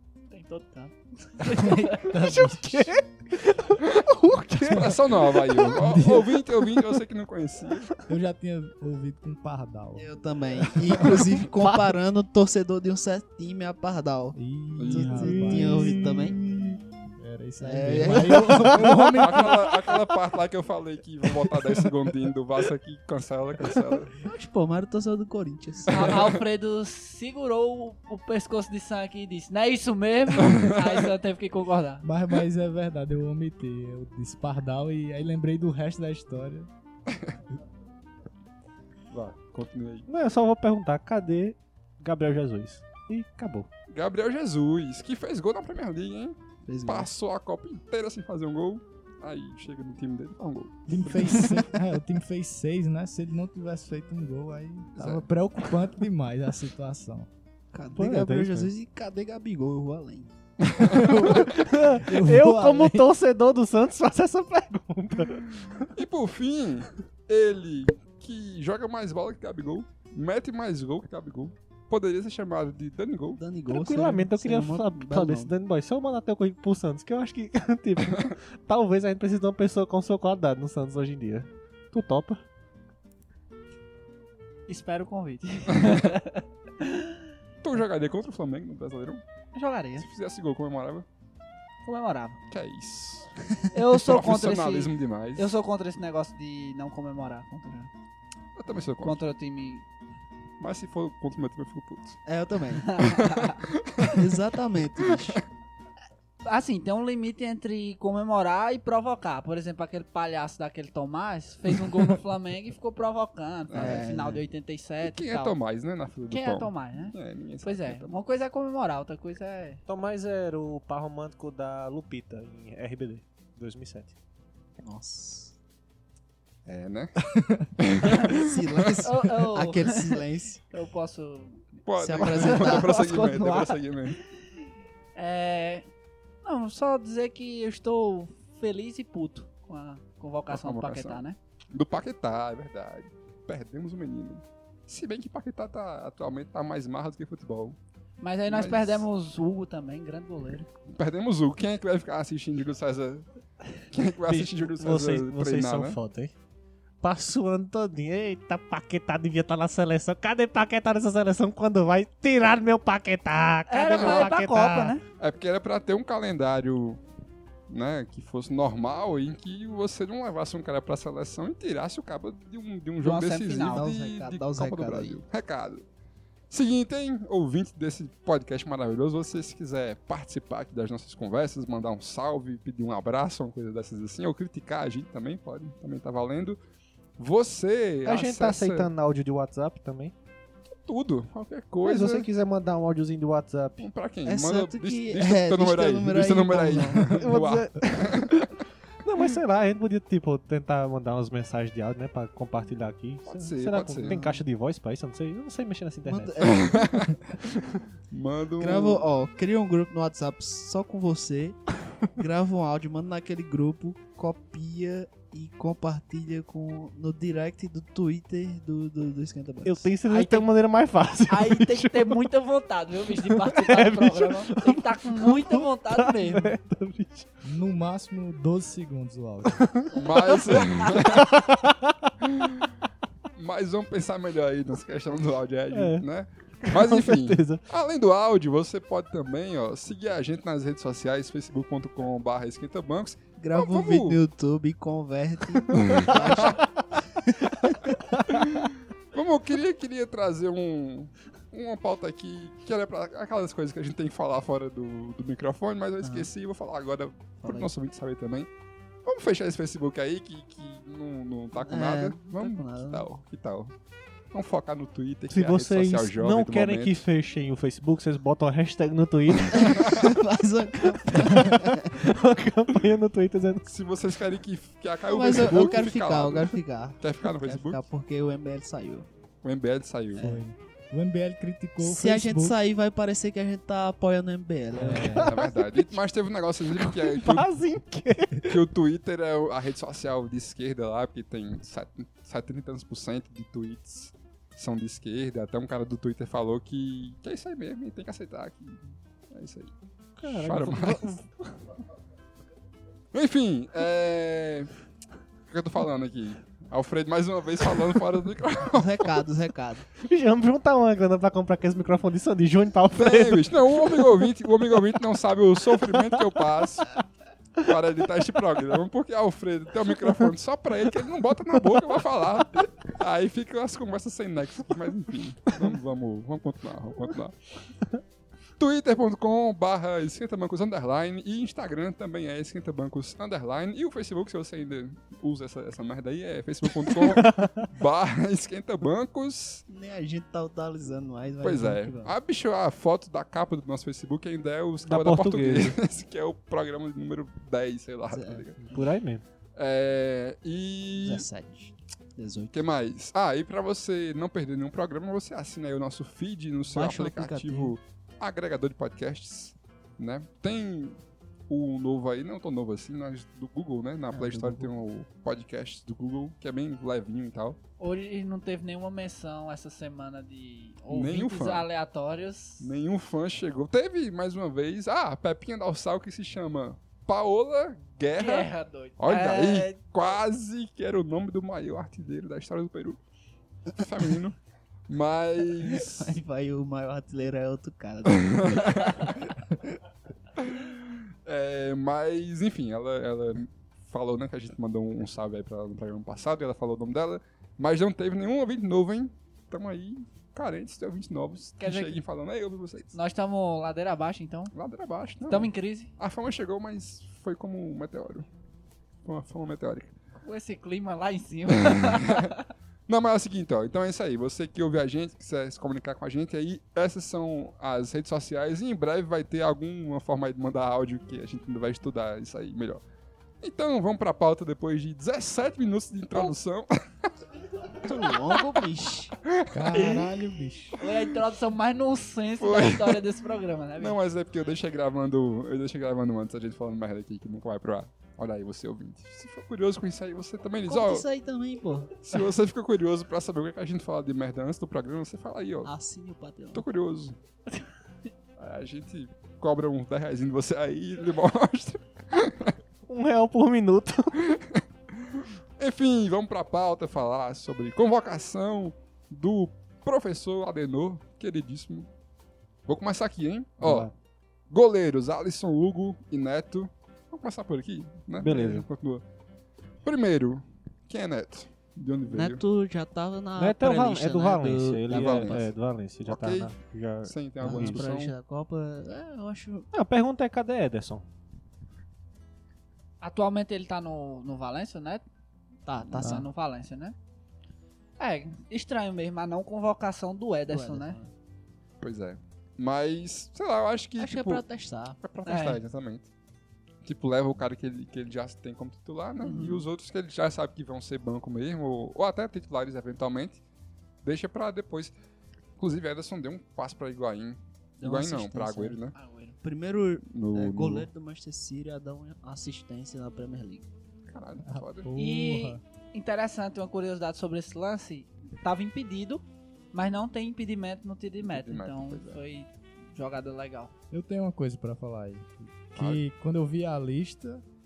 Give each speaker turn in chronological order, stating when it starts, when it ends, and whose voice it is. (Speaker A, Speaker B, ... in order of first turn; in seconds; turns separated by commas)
Speaker A: 0.3-2.2, Speaker B: 1.6-2.9, Speaker C: 2.1-5.9, Speaker D: 4.7-7.9, Speaker B: 5.7-6.3, Speaker B: 8.1-10.1, Speaker E: 9.9-14.3, Speaker B: 11.0-11.3, Speaker C: 11.6-11.9, Speaker B: 14.3-16.3, Speaker D: 14.8-15.4, Speaker E: 14.9-16.4, Speaker C: 15.3-16.7, Speaker B: 17.2-19.6, Speaker E: 17.6-18.7, Speaker C: 18.1-19.2, Speaker D: 18.8-24.1, Speaker E: 24.2-26.3, Speaker A: 25.9-32.0, Speaker D: 25.9-26.3, Speaker D: 30.4-30.7, Speaker B: 32.0-36.7, Speaker D: 37.1-37.4, Speaker D: 39.1-40.0, Speaker C: 40.1-43.7, Speaker D: 43.9-51.7, Speaker E: 46.6-47.1, Speaker B: 50.9-57.3, Speaker D: 55.0-55.2, Speaker E: 57.7-60.3, Speaker C: 58.0-58.7, Speaker D: 60.6-61.5, Speaker B: 60.9-63.1, Speaker C: 61.2-65.9, Speaker D: 65.3-73.4, Speaker E: 73.3-75.5, Speaker C: 73.7-82.4, Speaker A: 84.7-87.2, Speaker D: 85.7-86.1, Speaker D: 87.6-89.2, Speaker A: 89.5-90.0, Speaker D: 90.0-91.0, Speaker A: 91.8-92.4, Speaker D: 92.5-93.3, Speaker A: 93.7-97.9, Speaker D: 93.8-95.5, Speaker D: 98.5-99.2, Speaker A: 99.0-99.8, Speaker D: 100.6-102.2, Speaker E: 102.2-103.0, Speaker A: 102.8-103.7, Speaker D: 103.0-104.3, Speaker E: 104.0-105.4, Speaker D: 105.0-105.4, Speaker A: 106.4-115.5, Speaker D: 113.7-114.1, Speaker E: 113.7-114.4, Speaker D: 115.0-118.2, Speaker A: 116.3-119.8, Speaker C: 119.8-124.1, Speaker E: 124.8-125.5, Speaker D: 126.7-127.2, Speaker B: 127.3-127.7, Speaker D: 127.8-129.0, Speaker E: 128.2-130.6, Speaker A: 129.0-134.2, Speaker D: 131.8-134.2, Speaker E: 132.0-132.9, Speaker A: 135.1-135.8, Speaker A: 136.4-141.4, Speaker D: 140.5-147.8, Speaker A: 148.2-150.7, Speaker D: 148.5-149.0, Speaker D: 150.9-153.3, Speaker D: 153.9-156.0, Speaker C: 154.2-156.3, Speaker C: 157.0-165.0, Speaker A: 163.7-165.0, Speaker D: 163.9-164.3, Speaker D: 165.2-167.0, Speaker D: 167.7-175.8, Speaker A: 173.0-173.9, Speaker E: 173.7-175.2, Speaker D: 176.5-186.6, Speaker D: 187.2-188.9, Speaker C: 188.0-190.1, Speaker D: 190.8-192.3, Speaker C: 191.8-193.9, Speaker D: 193.8-198.5, Speaker E: 194.2-197.2, Speaker C: 197.1-198.5, Speaker C: 199.0-206.7, Speaker D: 203.3-204.2, Speaker E: 204.1-204.4, Speaker E: 206.1-207.1, Speaker D: 206.4-207.2, Speaker D: 208.1-209.1, Speaker E: 208.6-211.6, Speaker E: 212.1-219.9, Speaker C: 219.6-222.2, Speaker A: 220.0-220.5, Speaker A: 221.3-226.5, Speaker C: 223.1-227.3, Speaker B: 227.4-229.6, Speaker C: 229.5-232.1, Speaker D: 229.9-231.4, Speaker D: 232.2-232.7, Speaker D: 233.3-244.2, Speaker C: 235.7-236.0, Speaker C: 236.6-237.6, Speaker E: 243.4-247.8, Speaker C: 245.8-246.1, Speaker D: 245.8-246.6, Speaker D: 248.3-258.5, Speaker E: 256.0-256.3, Speaker E: 257.4-257.7, Speaker D: 259.0-263.7, Speaker E: 261.5-263.1, Speaker D: 264.3-267.0, Speaker C: 265.3-269.9, Speaker D: 269.5-270.1, Speaker E: 269.5-272.0, Speaker C: 271.2-273.7, Speaker D: 273.7-277.8, Speaker E: 275.1-279.1, Speaker D: 279.4-280.2, Speaker E: 280.2-280.4, Speaker B: 280.2-282.6, Speaker E: 281.8-285.3, Speaker B: 284.8-285.3, Speaker C: 284.8-285.9, Speaker D: 285.2-287.5, Speaker C: 286.8-288.6, Speaker D: 288.4-299.7, Speaker C: 300.2-301.6, Speaker D: 300.2-301.0, Speaker D: 303.1-304.7, Speaker D: 305.5-309.2, Speaker E: 308.6-309.9, Speaker C: 310.0-314.1, Speaker D: 312.9-317.0, Speaker D: 317.6-327.4, Speaker D: 328.6-339.6, Speaker C: 336.9-337.7, Speaker E: 339.7-342.1, Speaker D: 341.4-348.7, Speaker C: 344.8-345.8, Speaker E: 348.1-348.4, Speaker C: 348.6-349.2, Speaker D: 349.6-351.3, Speaker E: 351.0-352.5, Speaker D: 352.5-361.0, Speaker E: 356.7-357.8, Speaker D: 361.5-367.6, Speaker E: 364.1-364.7, Speaker A: 367.8-372.7, Speaker D: 370.9-371.7, Speaker D: 372.6-383.0, Speaker A: 378.1-379.8, Speaker D: 383.7-384.4, Speaker D: 384.9-386.1, Speaker E: 385.6-389.1, Speaker D: 388.2-389.1, Speaker D: 390.4-402.9, Speaker A: 401.6-402.0, Speaker A: 402.9-404.5, Speaker D: 404.5-408.3, Speaker A: 405.3-405.9, Speaker D: 409.0-409.9, Speaker A: 410.2-412.4, Speaker D: 411.5-412.3, Speaker D: 412.9-422.8, Speaker D: 423.4-426.7, Speaker E: 427.8-429.1, Speaker D: 429.2-430.1, Speaker B: 429.5-430.8, Speaker A: 430.8-434.0, Speaker D: 432.4-433.0, Speaker D: 433.8-441.1, Speaker E: 440.7-442.0, Speaker D: 442.0-445.7, Speaker E: 445.6-446.6, Speaker D: 446.5-447.2, Speaker D: 448.4-452.6, Speaker C: 452.9-454.3, Speaker D: 454.2-461.9, Speaker D: 462.7-463.9, Speaker C: 463.6-463.9, Speaker D: 464.5-469.0, Speaker C: 468.2-468.6, Speaker D: 469.8-472.4, Speaker E: 472.1-475.5, Speaker C: 473.4-477.8, Speaker D: 474.9-475.4, Speaker D: 476.1-478.1, Speaker E: 477.4-479.7, Speaker C: 479.7-481.0, Speaker A: 483.0-485.0, Speaker E: 485.6-486.3, Speaker A: 485.9-486.9, Speaker A: 488.0-491.0, Speaker E: 490.5-491.1, Speaker D: 491.8-494.4, Speaker E: 494.0-495.0, Speaker D: 495.0-496.1, Speaker A: 495.2-495.6, Speaker D: 496.8-503.4, Speaker A: 499.2-499.5, Speaker E: 499.2-499.6, Speaker D: 504.0-504.9, Speaker D: 505.6-508.9, Speaker E: 507.8-508.8, Speaker A: 508.9-509.4, Speaker E: 509.4-513.6, Speaker D: 510.1-510.9, Speaker D: 514.1-514.9, Speaker B: 514.4-515.6, Speaker A: 515.0-523.7, Speaker D: 521.2-522.2, Speaker B: 523.9-527.4, Speaker D: 525.8-526.0